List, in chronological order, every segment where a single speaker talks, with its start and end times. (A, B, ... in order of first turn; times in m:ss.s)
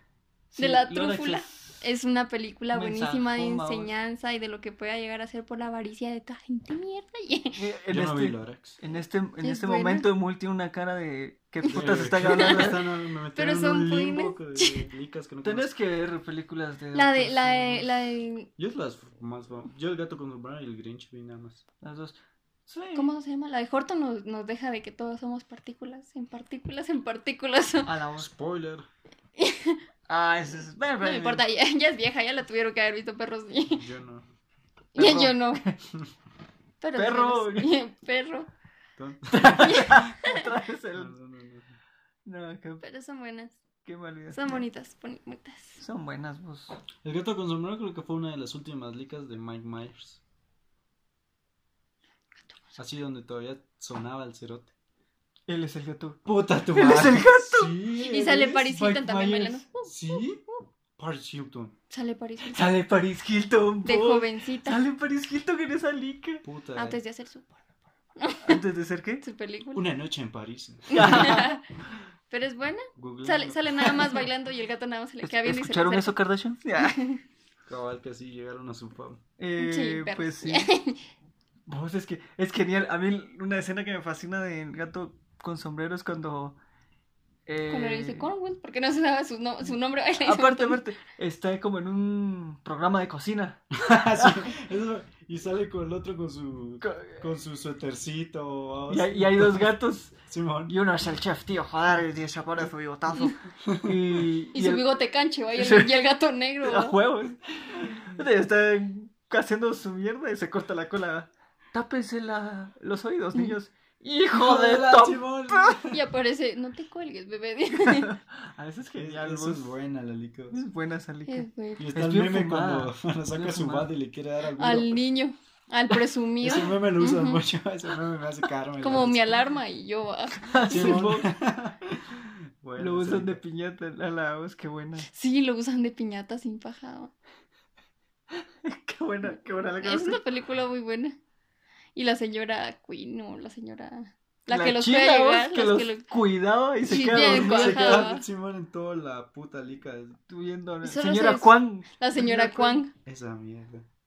0:00.5-0:01.9 A
0:00.6-0:07.6 B
0:02.7-0:03.9 A
0:07.6-0:12.8 A
0:07.9-0:08.8 C
0:09.4-0:10.1 B
0:11.7-0:12.8 B
0:11.7-0:15.7 C
0:13.4-0:14.9 B
0:15.4-0:18.0 A
0:16.9-0:18.5 B
0:18.6-0:21.6 C
0:21.8-0:23.1 A
0:23.0-0:27.9 B
0:27.8-0:28.3 A
0:28.2-0:28.9 C
0:29.4-0:29.8 B
0:30.1-0:31.4 A
0:31.0-0:33.9 B
0:33.7-0:34.3 C
0:35.0-0:35.6 B
0:35.0-0:35.8 A
0:36.8-0:38.5 B
0:37.0-0:37.7 A
0:39.0-0:40.0 C
0:39.3-0:41.2 A
0:39.6-0:40.5 B
0:41.0-0:41.8 C
0:42.3-0:42.8 A
0:42.8-0:43.6 B
0:43.8-0:44.6 A
0:44.3-0:45.8 B
0:45.8-0:46.8 A
0:47.0-0:50.2 C
0:52.8-0:54.7 C
0:55.5-0:57.8 A
0:56.2-0:59.3 C
0:58.0-1:00.6 B
0:58.8-0:59.6 A
0:59.8-1:00.4 C
1:01.0-1:01.8 C
1:01.9-1:02.7 B
1:02.5-1:06.4 A
1:03.8-1:04.8 B
1:06.4-1:07.0 C
1:06.8-1:07.6 B
1:08.2-1:08.6 B
1:08.4-1:09.2 A
1:09.2-1:09.9 B
1:09.7-1:11.4 C
1:10.9-1:11.6 B
1:10.9-1:11.6 A
1:12.3-1:16.2 B
1:13.0-1:14.1 C
1:13.8-1:14.2 A
1:15.2-1:17.0 A
1:16.7-1:17.2 B
1:17.7-1:19.2 C
1:19.4-1:20.7 A
1:19.6-1:21.0 B
1:21.7-1:26.6 A
1:27.5-1:28.3 A
1:27.7-1:30.8 B
1:30.2-1:34.5 A
1:33.7-1:39.7 C
1:36.8-1:37.2 A
1:38.9-1:40.2 A
1:40.2-1:40.8 C
1:40.7-1:44.9 A
1:43.6-1:44.0 C
1:44.5-1:47.0 B
1:45.5-1:46.0 A
1:46.6-1:55.8 A
1:54.3-1:56.0 C
1:55.9-1:58.1 B
1:57.7-1:59.8 A
1:59.0-2:00.6 C
2:00.5-2:03.9 A
2:01.3-2:01.9 B
2:01.8-2:05.0 C
2:04.6-2:07.4 B
2:06.4-2:09.5 C
2:08.8-2:10.9 B
2:10.4-2:11.3 A
2:10.7-2:13.4 C
2:12.8-2:15.1 A
2:15.1-2:17.1 B
2:18.4-2:20.2 A
2:19.8-2:21.2 B
2:22.0-2:26.1 B
2:24.5-2:28.1 A
2:26.9-2:28.2 B
2:27.0-2:30.2 C
2:30.3-2:32.8 A
2:30.8-2:32.9 B
2:33.0-2:33.8 C